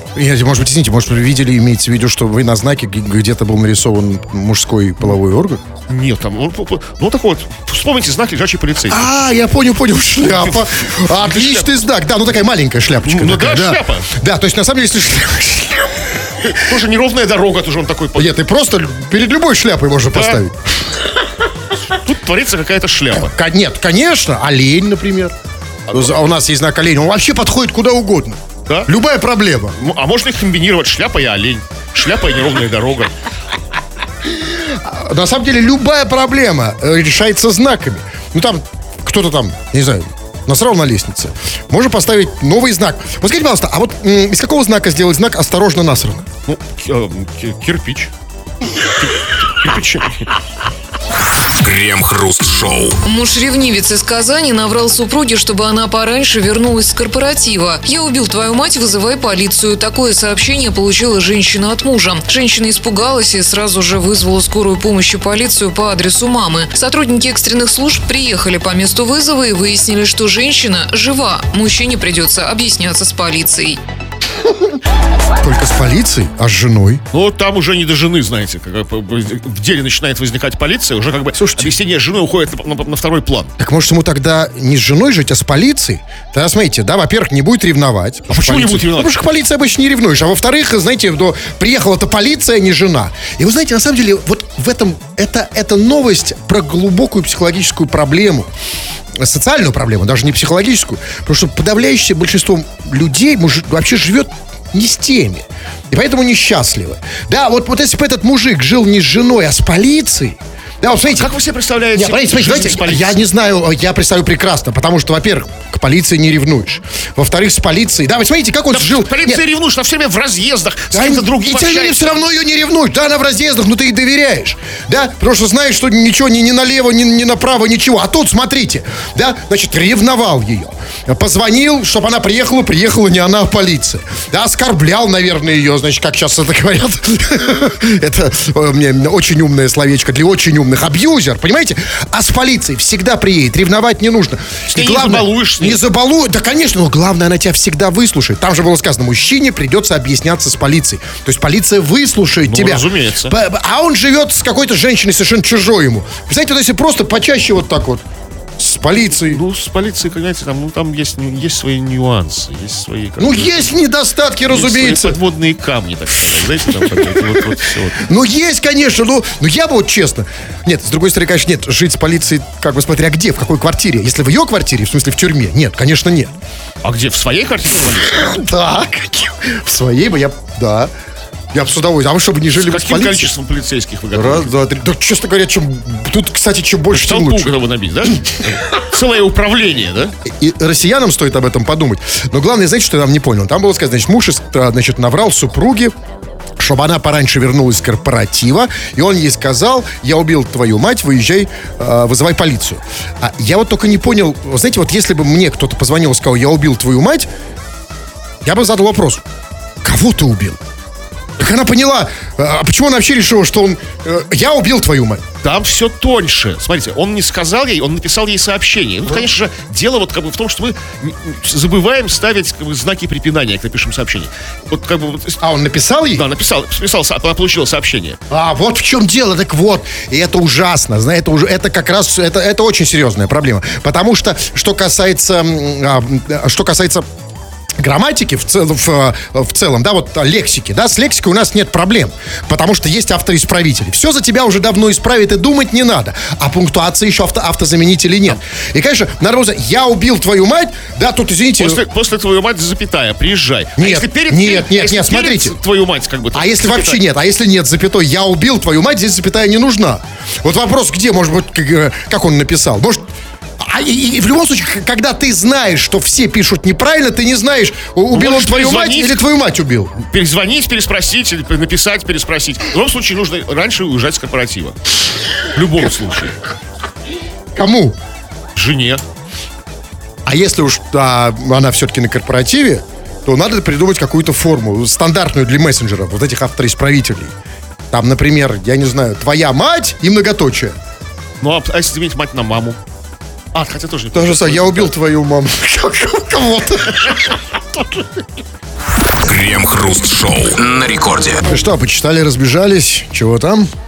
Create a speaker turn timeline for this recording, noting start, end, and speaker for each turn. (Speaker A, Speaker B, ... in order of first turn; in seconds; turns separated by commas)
Speaker A: 0.1-5.6, Speaker B: 5.9-9.1, Speaker A: 8.9-16.5, Speaker B: 10.3-11.7, Speaker B: 13.0-14.1, Speaker B: 16.4-18.3, Speaker A: 18.2-20.6, Speaker B: 20.1-20.4, Speaker B: 21.9-23.3, Speaker A: 23.1-25.4, Speaker A: 25.9-29.8, Speaker B: 29.8-33.1, Speaker A: 34.3-46.3, Speaker B: 46.5-48.1, Speaker B: 49.0-50.3, Speaker C: 51.5-53.0, Speaker D: 53.0-73.8, Speaker A: 75.4-77.0, Speaker B: 77.1-83.5, Speaker A: 81.4-81.7, Speaker A: 83.6-98.5, Speaker B: 88.3-89.2, Speaker A: 99.1-111.3, Speaker B: 111.1-113.2, Speaker A: 112.0-119.4, Speaker B: 118.7-122.2, Speaker A: 120.9-158.0, Speaker B: 144.7-145.8, Speaker B: 152.4-153.4, Speaker A: 158.6-159.4, Speaker B: 159.2-163.8, Speaker A: 163.2-165.2, Speaker B: 164.5-168.0, Speaker A: 166.8-176.3, Speaker B: 176.8-178.4, Speaker A: 178.1-180.9, Speaker A: 181.5-183.3, Speaker B: 182.5-184.5, Speaker A: 184.1-187.5, Speaker B: 186.9-190.2, Speaker A: 190.3-195.9, Speaker A: 196.6-207.3, Speaker A: 208.4-209.2, Speaker A: 209.8-210.6, Speaker A: 211.4-215.2, Speaker B: 215.4-225.4, Speaker A: 225.4-226.3, Speaker B: 226.1-228.2, Speaker A: 228.3-237.1, Speaker A: 237.8-251.8, Speaker B: 251.6-257.0, Speaker A: 253.8-255.6, Speaker A: 256.3-263.1, Speaker A: 263.6-269.9, Speaker B: 268.1-269.2, Speaker B: 270.0-274.8, Speaker B: 275.4-276.4, Speaker A: 277.6-278.0, Speaker B: 278.6-279.0, Speaker A: 280.3-287.4, Speaker A: 287.9-290.8, Speaker B: 291.4-292.8, Speaker B: 293.5-294.9, Speaker A: 294.1-297.8, Speaker C: 299.2-301.4, Speaker A: 301.5-303.7